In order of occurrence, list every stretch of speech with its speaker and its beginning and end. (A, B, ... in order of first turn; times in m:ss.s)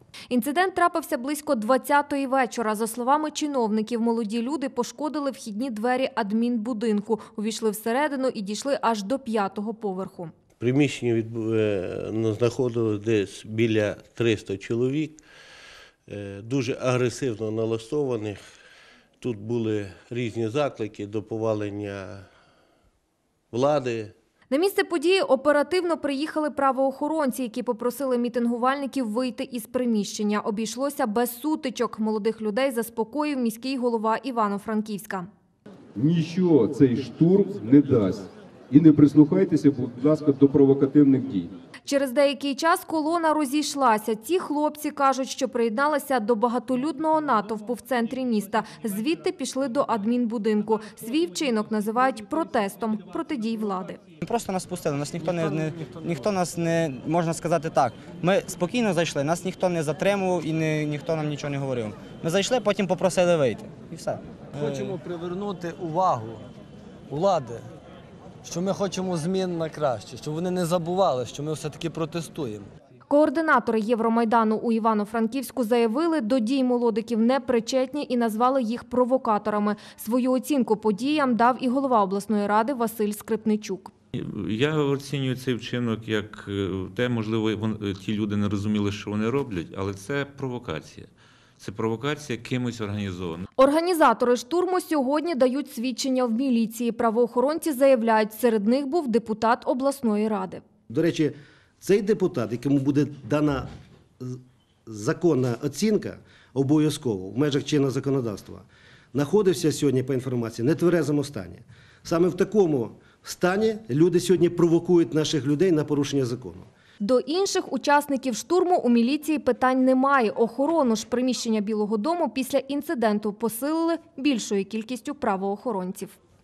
0:00.3-0:10.3 A
0:10.6-0:15.2 B
0:16.1-0:18.4 B
0:19.2-0:22.2 B
0:23.5-0:24.1 B
0:24.5-0:35.3 A
0:36.0-0:41.5 C
0:41.8-0:54.0 A
0:54.2-1:05.0 D
0:55.2-0:56.1 E
1:04.5-1:06.4 E
1:07.1-1:07.7 E
1:08.4-1:12.7 E
1:13.1-1:23.9 A
1:24.1-1:31.1 F
1:31.6-1:33.4 F
1:33.6-1:40.6 A
1:40.9-1:43.7 G
1:44.2-1:56.7 G
1:57.0-2:06.2 A